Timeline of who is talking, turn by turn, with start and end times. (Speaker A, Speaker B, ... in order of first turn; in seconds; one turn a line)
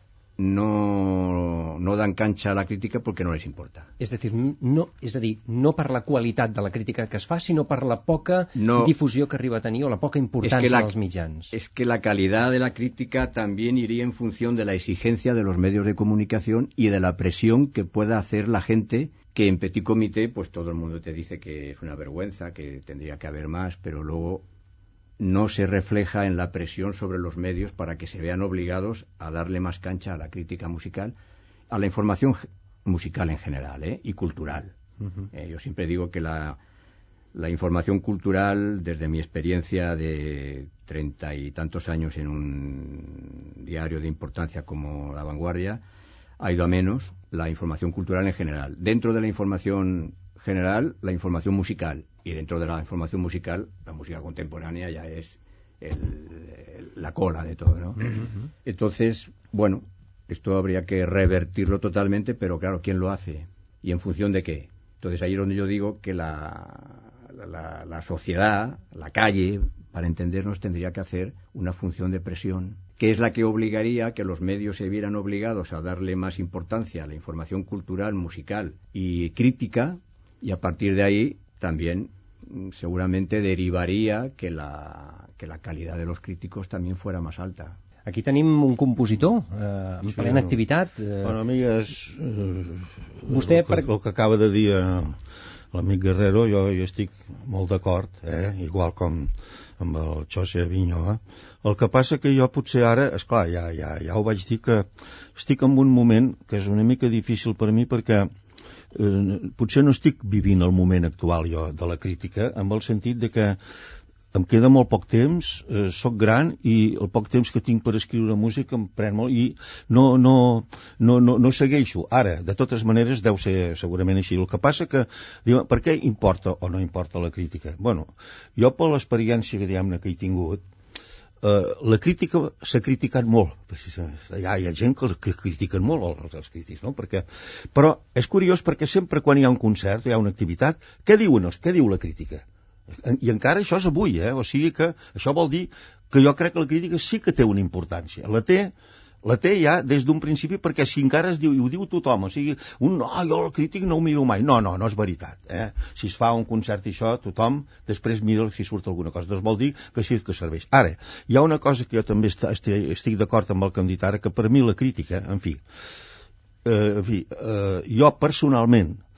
Speaker A: 0.4-3.9
Speaker B: 4.0-11.5
Speaker A: 8.6-8.9
Speaker A: 10.4-10.9
Speaker A: 11.5-24.4
Speaker A: 25.2-31.1
Speaker A: 31.7-34.7
Speaker A: 35.3-36.6
Speaker A: 37.3-45.8
Speaker A: 46.4-87.8
Speaker B: 88.1-91.4
Speaker C: 90.0-90.6
Speaker C: 91.2-95.2
Speaker B: 93.3-93.9
Speaker C: 95.7-108.3
Speaker C: 108.9-113.6
Speaker C: 114.3-130.6
Speaker C: 131.4-142.4
Speaker C: 142.9-165.6
Speaker C: 166.7-169.0